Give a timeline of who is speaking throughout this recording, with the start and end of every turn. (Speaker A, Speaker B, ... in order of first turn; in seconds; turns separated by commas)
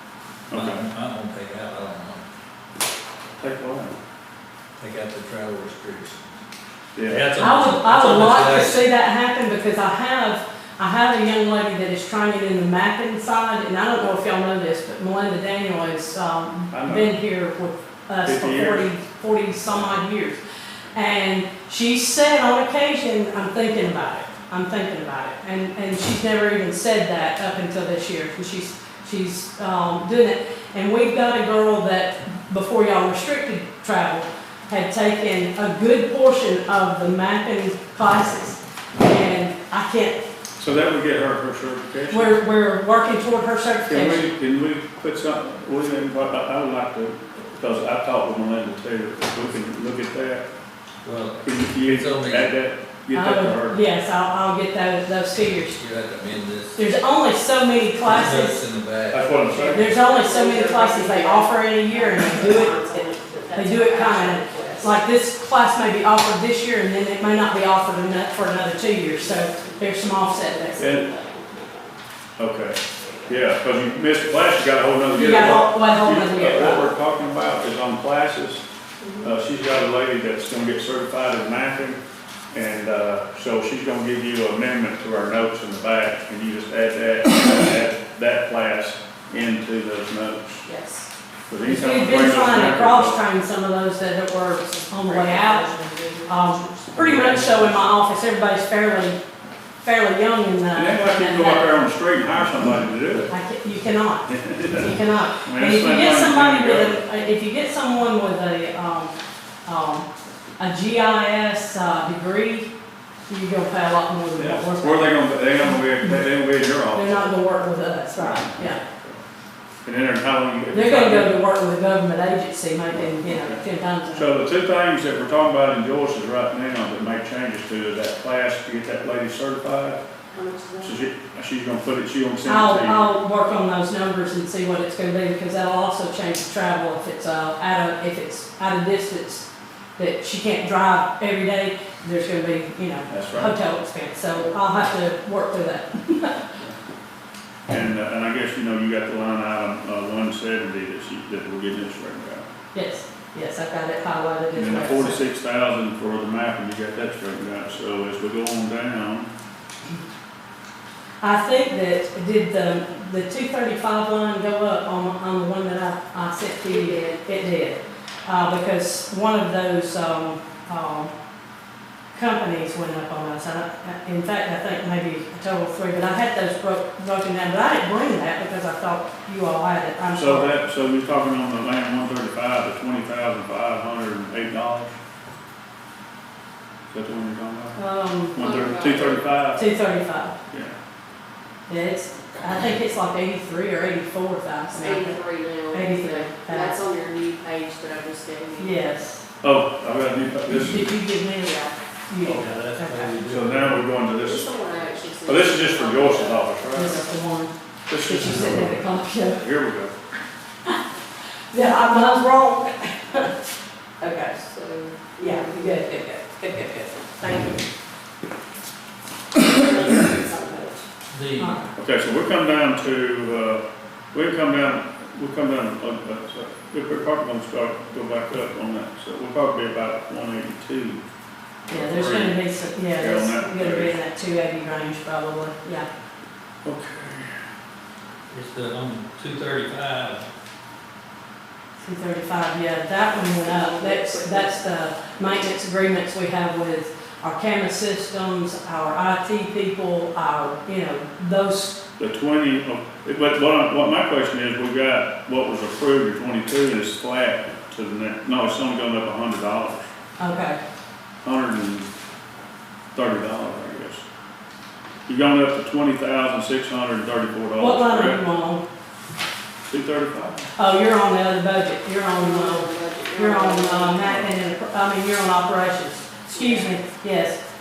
Speaker A: 0.5-0.8, Speaker B: 0.5-2.2, Speaker A: 3.4-4.0, Speaker B: 4.8-6.4, Speaker A: 7.0-7.2, Speaker B: 7.1-8.8, Speaker C: 7.4-20.4, Speaker A: 16.7-17.1, Speaker A: 18.2-18.8, Speaker C: 20.9-40.2, Speaker A: 40.6-42.4, Speaker C: 42.1-44.3, Speaker A: 43.9-50.5, Speaker B: 51.0-52.5, Speaker A: 51.4-53.8, Speaker C: 53.1-55.8, Speaker B: 55.8-56.9, Speaker C: 56.8-58.6, Speaker B: 58.0-59.8, Speaker A: 59.1-59.9, Speaker C: 59.6-71.0, Speaker D: 59.9-65.0, Speaker D: 69.2-69.9, Speaker D: 70.5-72.0, Speaker A: 70.8-71.0, Speaker A: 72.4-78.6, Speaker D: 73.0-73.5, Speaker C: 75.1-76.9, Speaker D: 79.0-79.3, Speaker A: 79.2-82.0, Speaker A: 82.5-90.6, Speaker D: 90.6-91.1, Speaker A: 91.5-93.2, Speaker C: 91.6-95.7, Speaker D: 94.6-97.0, Speaker C: 96.3-99.2, Speaker A: 97.0-97.9, Speaker C: 99.8-101.8, Speaker A: 100.7-103.3, Speaker C: 103.3-109.1, Speaker A: 104.3-104.9, Speaker A: 105.4-107.0, Speaker C: 109.7-112.7, Speaker C: 113.3-116.2, Speaker A: 114.4-117.2, Speaker C: 116.9-118.8, Speaker A: 118.2-119.2, Speaker A: 119.8-121.4, Speaker C: 120.7-124.3, Speaker A: 122.9-123.6, Speaker A: 124.1-130.0, Speaker D: 130.3-131.0, Speaker A: 130.8-133.0, Speaker C: 132.4-139.4, Speaker C: 140.0-146.5, Speaker A: 143.1-143.5, Speaker A: 147.7-152.4, Speaker C: 152.7-155.2, Speaker A: 154.5-159.3, Speaker C: 161.2-171.1, Speaker D: 166.6-167.3, Speaker C: 172.1-180.5, Speaker A: 180.1-184.9, Speaker A: 186.9-187.8, Speaker C: 187.8-188.4, Speaker A: 188.3-189.6, Speaker D: 188.4-189.2, Speaker C: 189.6-190.3, Speaker A: 190.5-190.7, Speaker C: 191.7-196.8, Speaker D: 194.7-198.8, Speaker C: 198.6-199.2, Speaker A: 199.4-200.9, Speaker C: 200.6-203.1, Speaker B: 202.2-203.9, Speaker A: 203.3-204.5, Speaker D: 204.2-206.5, Speaker A: 205.2-207.0, Speaker C: 206.7-209.4, Speaker A: 207.9-208.8, Speaker A: 209.4-209.9, Speaker C: 211.5-213.3, Speaker C: 214.0-217.6, Speaker D: 215.2-215.6, Speaker C: 219.3-220.8, Speaker B: 221.1-221.6, Speaker C: 221.4-221.7, Speaker A: 221.8-231.0, Speaker A: 231.7-232.4, Speaker C: 231.7-235.9, Speaker A: 232.9-233.9, Speaker A: 236.6-237.3, Speaker B: 238.3-240.2, Speaker C: 241.8-251.8, Speaker D: 243.1-244.6, Speaker A: 252.0-259.9, Speaker C: 260.2-260.6, Speaker A: 261.2-261.9, Speaker A: 262.9-264.0, Speaker A: 265.1-268.2, Speaker C: 267.6-268.6, Speaker A: 269.6-270.5, Speaker C: 270.6-277.4, Speaker D: 272.1-274.1, Speaker A: 274.0-274.3, Speaker D: 276.3-276.8